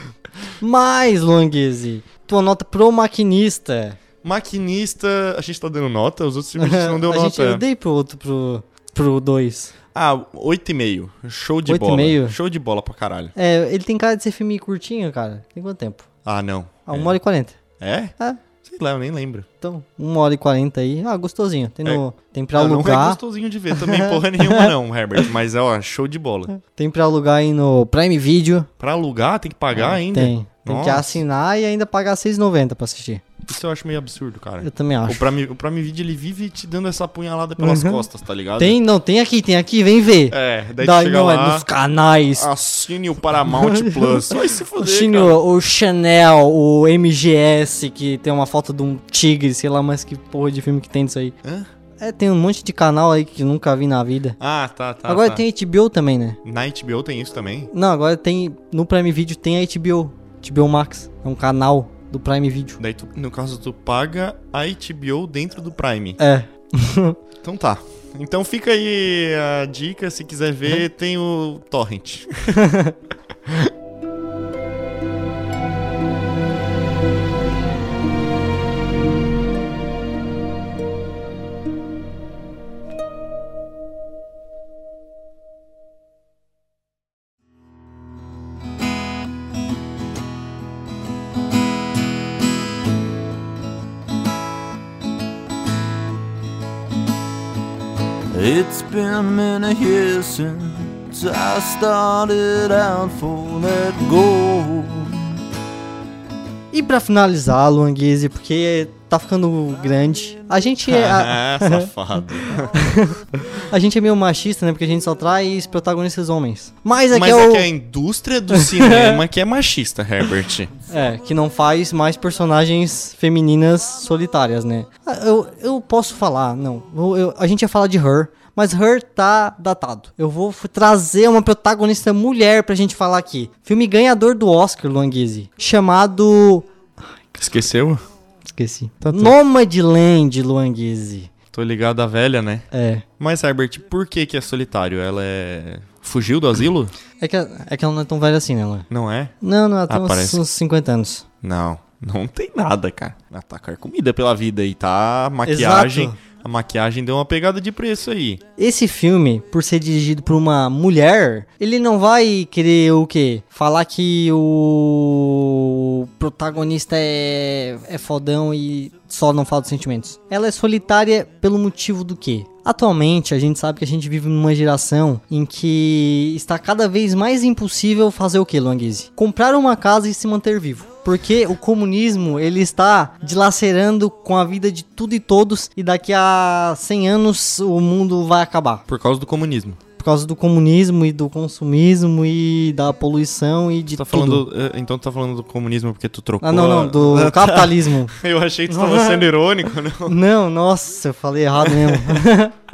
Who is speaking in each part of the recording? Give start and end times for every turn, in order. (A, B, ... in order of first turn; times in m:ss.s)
0:00.6-0:04.0 A
0:04.2-0:07.6 B
0:06.6-0:09.7 A
0:09.9-0:13.3 B
0:11.6-0:12.3 A
0:13.4-0:16.1 A
0:16.2-0:17.1 B
0:16.9-0:17.6 A
0:17.8-0:19.5 B
0:19.6-0:23.2 A
0:22.5-0:26.5 B
0:23.7-0:24.7 A
0:26.5-0:28.7 A
0:28.8-0:31.2 B
0:29.7-0:33.2 A
0:33.5-0:38.8 B
0:34.6-0:35.3 A
0:37.6-0:38.0 A
0:38.6-0:42.5 A
0:40.3-0:41.7 B
0:42.3-0:45.4 B
0:43.4-0:51.3 A
0:52.0-0:54.4 A
0:54.4-0:55.4 B
0:55.0-0:56.4 A
0:56.4-0:57.7 B
0:57.7-1:02.8 A
1:02.8-1:06.2 B
1:06.2-1:07.2 A
1:07.4-1:12.6 B
1:12.6-1:12.9 A
1:38.3-1:45.2 C
1:46.7-1:51.9 A
1:50.8-1:52.8 B
1:52.7-1:57.7 A
1:57.1-2:00.7 B
1:58.5-1:59.2 A
2:00.9-2:17.4 A
2:17.4-2:18.0 B
2:18.5-2:21.3 A
2:19.0-2:19.3 B
2:21.5-2:22.7 B
2:22.7-2:23.0 A
2:23.2-2:26.9 B
2:27.2-2:28.9 A
2:28.9-2:29.3 B
2:29.4-2:31.2 A
2:29.9-2:30.4 B
2:31.4-2:38.4 B
2:35.4-2:36.2 A
2:38.6-3:08.8 A
3:08.9-3:09.8 B
3:10.0-3:14.4 A
3:13.9-3:20.2 B
3:16.4-3:18.1 A
3:18.7-3:19.3 A
3:20.0-3:22.6 A
3:21.6-3:22.2 B